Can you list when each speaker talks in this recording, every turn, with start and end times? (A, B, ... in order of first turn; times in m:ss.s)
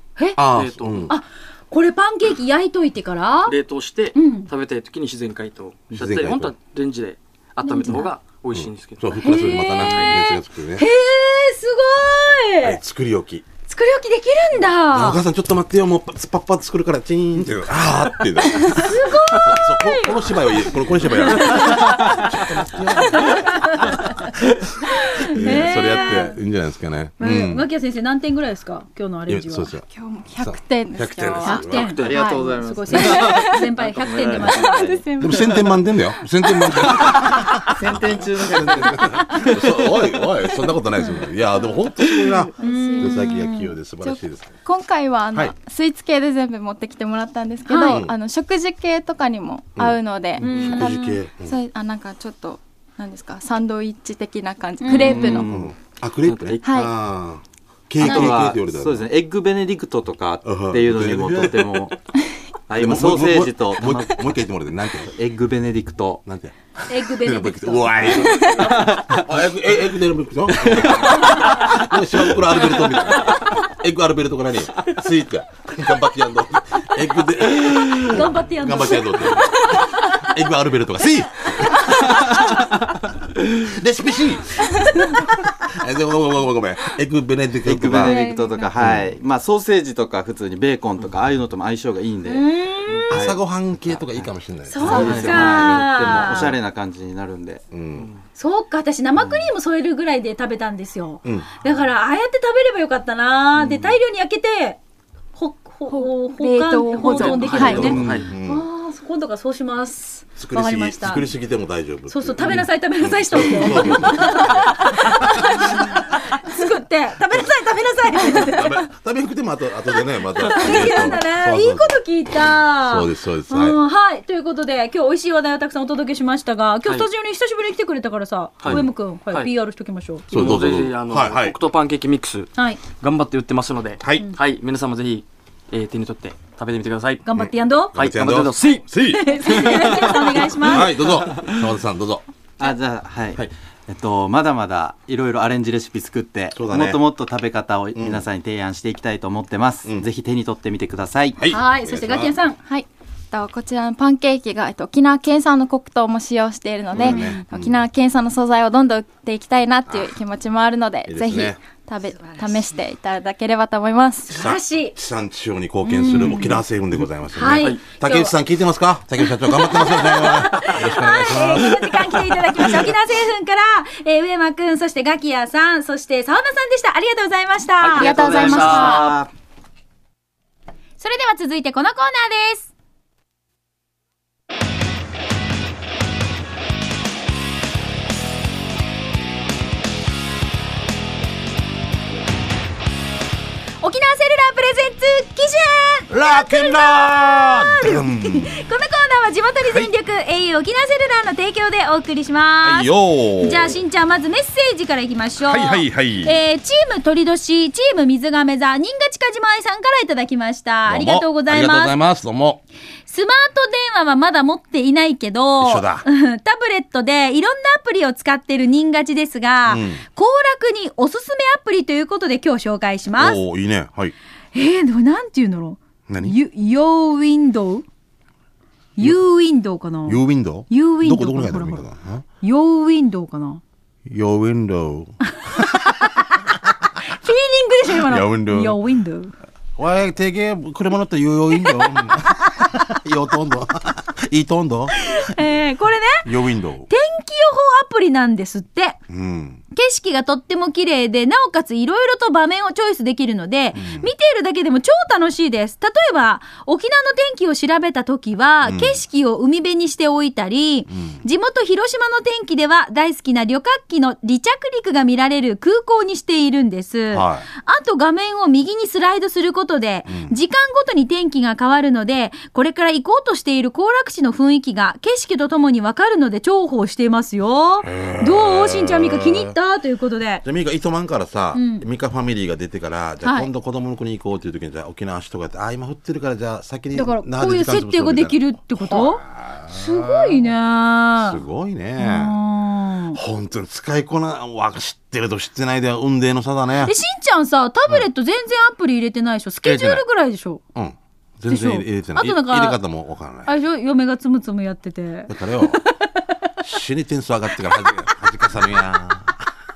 0:00.4-0:01.1 A
0:00.5-0:01.1 B
0:01.1-0:03.5 C
0:03.4-0:09.2 B
0:04.1-0:04.5 C
0:05.9-0:06.5 A
0:07.6-0:08.1 C
0:08.5-0:10.9 A
0:09.2-0:12.8 C
0:09.8-0:10.2 B
0:12.6-0:13.4 A
0:13.7-0:15.2 C
0:14.9-0:24.4 A
0:18.6-0:20.2 C
0:21.3-0:22.0 C
0:23.1-0:24.0 C
0:24.9-0:26.4 C
0:25.3-0:27.6 A
0:27.2-0:29.7 C
0:29.3-0:29.8 A
0:29.8-0:33.7 D
0:30.4-0:31.9 A
0:31.4-0:34.8 C
0:31.8-0:32.2 B
0:32.0-0:35.6 E
0:34.4-0:35.8 D
0:35.2-0:44.5 A
0:36.5-0:36.8 D
0:36.6-0:40.2 E
0:42.2-0:43.4 D
0:42.6-0:43.7 C
0:44.0-0:55.5 D
0:47.6-0:48.1 C
0:49.8-0:51.6 A
0:50.4-0:51.0 C
0:54.8-0:55.4 C
0:54.8-0:55.7 E
0:55.4-0:59.1 A
0:56.2-0:56.6 B
0:56.6-0:56.9 D
0:58.0-1:02.0 E
0:58.0-0:58.3 D
1:00.4-1:01.9 A
1:02.7-1:04.2 E
1:02.7-1:05.1 A
1:05.0-1:06.2 E
1:06.2-1:22.4 A
1:06.9-1:08.2 C
1:08.3-1:08.6 D
1:08.6-1:09.0 E
1:10.6-1:11.6 E
1:17.8-1:20.2 C
1:21.4-1:22.4 C
1:23.5-1:28.2 A
1:27.6-1:32.5 E
1:28.0-1:28.7 D
1:28.1-1:28.5 C
1:28.8-1:29.1 A
1:32.2-1:33.2 C
1:33.1-1:37.6 E
1:33.1-1:36.6 A
1:34.7-1:36.5 C
1:34.9-1:35.4 B
1:37.7-1:38.1 A
1:38.3-1:44.8 C
1:39.2-1:39.4 E
1:41.2-1:41.5 A
1:43.6-1:43.9 A
1:45.3-1:51.3 C
1:45.9-1:48.0 D
1:47.0-1:48.3 B
1:47.5-1:48.6 A
1:47.9-1:48.3 E
1:50.4-1:55.5 A
1:52.1-1:58.8 C
1:58.2-2:03.8 A
2:00.4-2:10.3 C
2:08.6-2:09.5 B
2:10.3-2:11.6 A
2:10.3-2:17.2 B
2:12.5-2:12.8 C
2:14.0-2:14.3 A
2:17.2-2:18.0 C
2:17.4-2:19.7 A
2:17.9-2:20.6 B
2:19.1-2:20.9 C
2:20.6-2:22.2 A
2:22.6-2:31.4 E
2:26.5-2:27.0 A
2:27.9-2:28.2 A
2:31.4-2:32.4 A
2:31.4-2:32.6 C
2:32.6-2:44.3 D
2:36.9-2:37.8 A
2:37.0-2:37.4 C
2:39.9-2:40.1 A
2:41.0-2:41.6 A
2:44.3-2:45.0 C
2:44.3-2:52.2 A
2:45.8-2:46.6 C
2:47.3-2:48.3 C
2:47.5-2:47.8 B
2:49.2-2:59.1 C
2:57.8-2:59.2 B
2:58.0-2:59.3 E
3:01.0-3:02.7 C
3:13.8-3:31.9 C
3:16.1-3:18.6 A
3:22.6-3:23.8 A
3:25.5-3:26.4 A
3:30.9-3:32.6 A
3:33.1-3:43.4 C
3:35.6-3:36.0 A
3:39.6-3:40.0 A
3:43.2-3:44.1 A
3:44.5-3:47.8 C
3:46.1-3:46.4 A
3:49.0-3:51.8 C
3:50.0-3:52.2 A
3:52.4-3:53.6 C
3:54.0-3:56.0 A
3:55.4-3:56.3 C
3:57.0-3:59.3 C
3:57.9-3:58.8 A
3:59.8-4:05.4 A
4:01.6-4:02.2 C
4:05.0-4:06.3 C
4:06.2-4:06.9 A
4:06.9-4:09.0 C
4:09.1-4:09.6 A
4:09.7-4:40.4 C
4:13.7-4:14.1 A
4:18.6-4:19.0 A
4:20.9-4:21.2 A
4:27.1-4:27.5 A
4:30.1-4:30.3 A
4:37.8-4:39.5 A
4:40.4-4:50.5 A
4:41.5-4:41.8 C
4:43.2-4:43.5 C
4:46.9-4:51.4 C
4:51.2-4:52.4 A
4:52.0-4:53.2 C
4:53.1-4:56.9 A
4:56.8-5:00.6 C
4:59.6-5:00.0 A
5:00.7-5:03.5 A
5:01.5-5:02.8 C
5:03.4-5:06.0 C
5:05.3-5:05.8 A
5:06.6-5:09.5 A